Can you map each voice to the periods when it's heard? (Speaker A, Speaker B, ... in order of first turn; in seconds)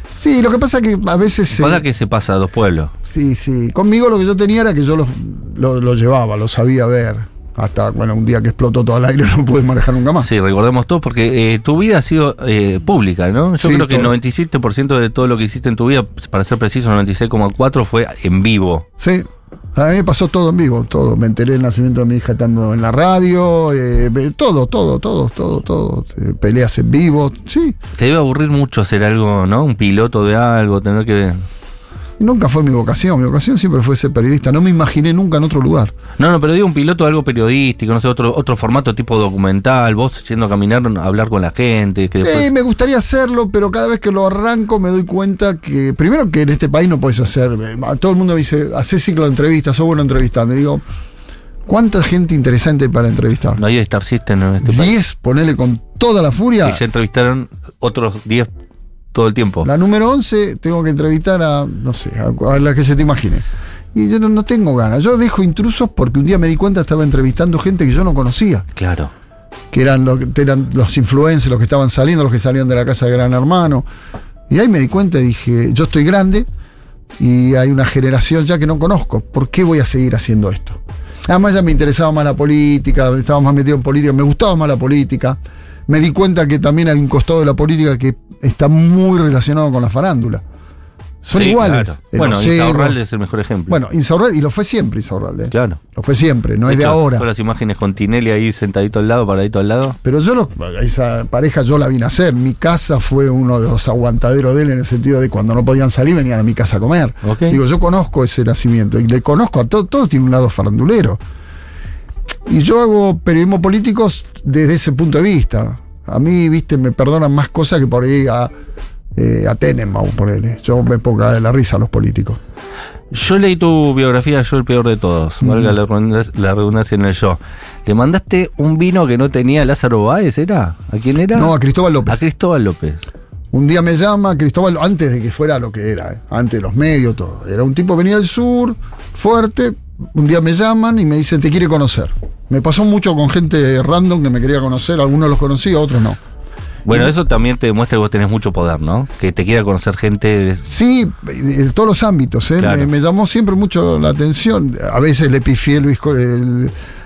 Speaker A: 0.1-1.8, 3.1-10.3, 13.6-14.2, 19.0-27.8, 32.2-35.9, 42.2-50.8, 51.7-53.6, 54.6-56.8, 59.6-68.7, 69.7-73.9, 74.5-76.5, 77.2-90.4, 91.2-93.0, 93.7-97.3, 100.0-111.2, 112.5-118.5, 119.2-122.4, 125.4-125.7, 131.3-132.2, 133.5-146.2, 146.9-147.1, 150.6-156.7
Speaker B: 1.5-2.9, 10.2-18.9, 28.0-31.4, 36.2-42.5, 53.6-54.9, 56.6-58.5, 59.1-59.7, 68.8-69.1, 91.3-93.8, 95.5-95.8, 96.7-100.0, 107.2-107.6, 123.1-131.5, 132.1-133.0, 146.9-150.6, 152.6-152.9